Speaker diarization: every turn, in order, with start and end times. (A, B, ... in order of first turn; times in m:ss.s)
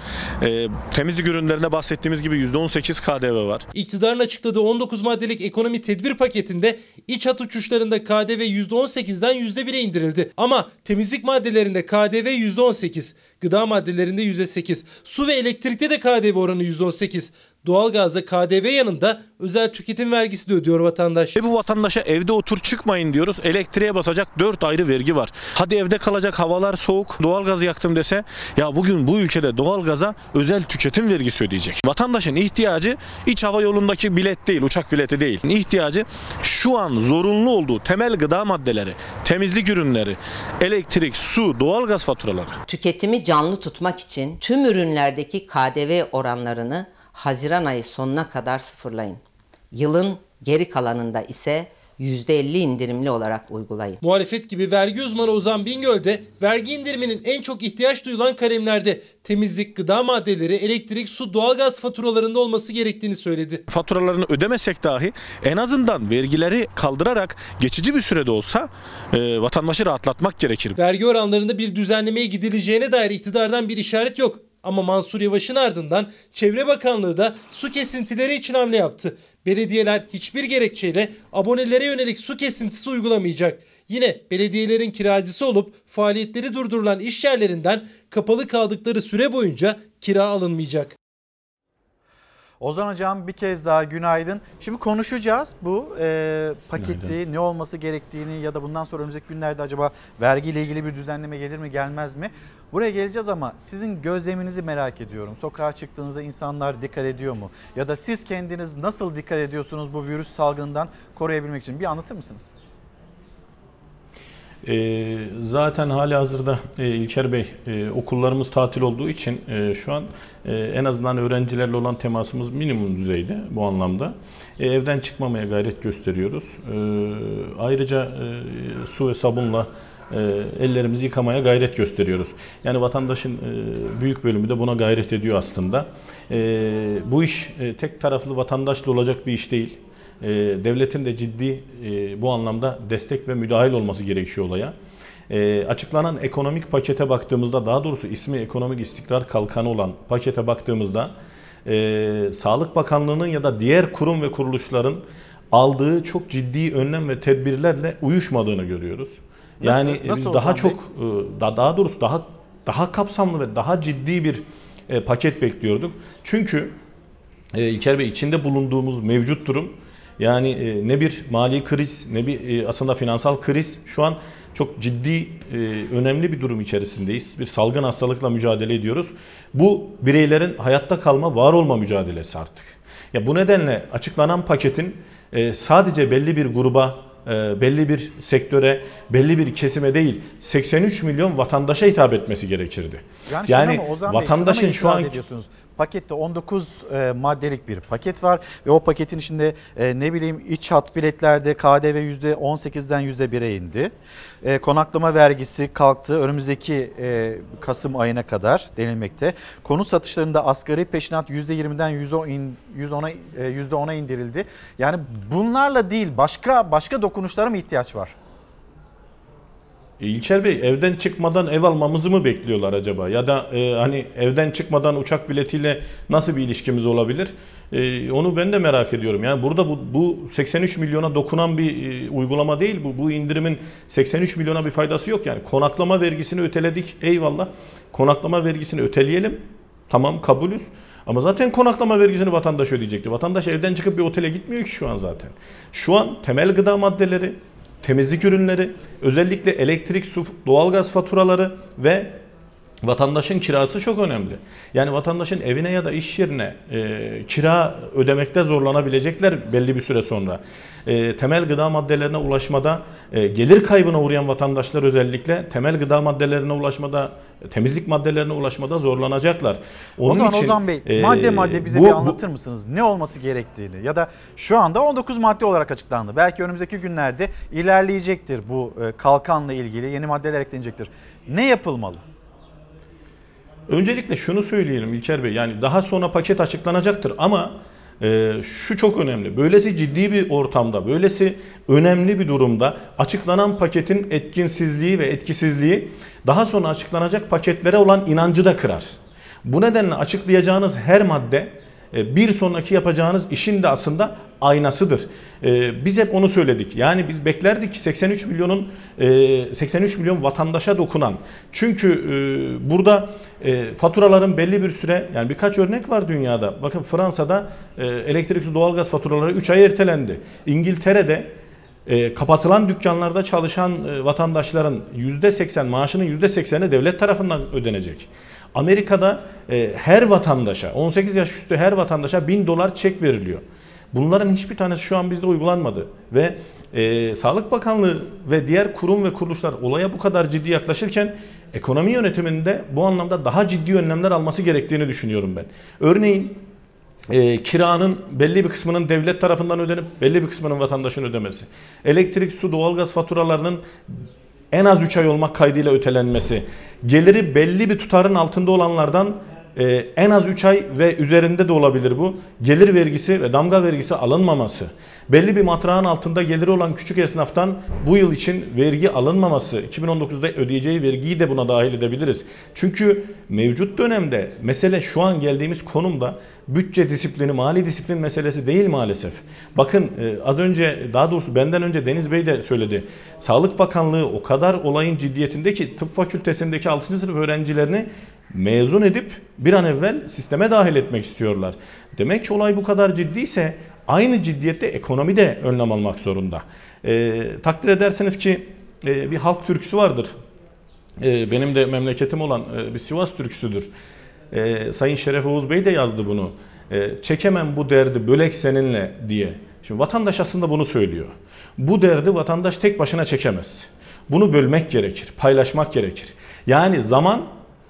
0:00.4-0:03.7 A
0:03.7-0:21.3 B
0:21.4-0:42.6 A
0:42.7-0:54.0 C
0:54.0-1:03.6 B
1:03.7-1:10.8 A
1:10.8-1:30.9 B
1:32.6-1:52.5 D
1:36.8-1:37.2 A
1:54.6-2:24.8 A
2:25.3-2:31.1 A
2:31.6-2:46.8 A
2:39.6-2:40.8 D
2:47.5-3:15.2 A
3:13.3-3:38.2 D
3:40.0-4:12.2 A
4:12.8-4:32.2 A
4:30.0-4:42.0 D
4:43.7-5:21.4 A
5:21.9-5:46.4 A
5:47.1-6:40.2 A
6:41.0-6:43.7 A
6:44.3-6:57.3 A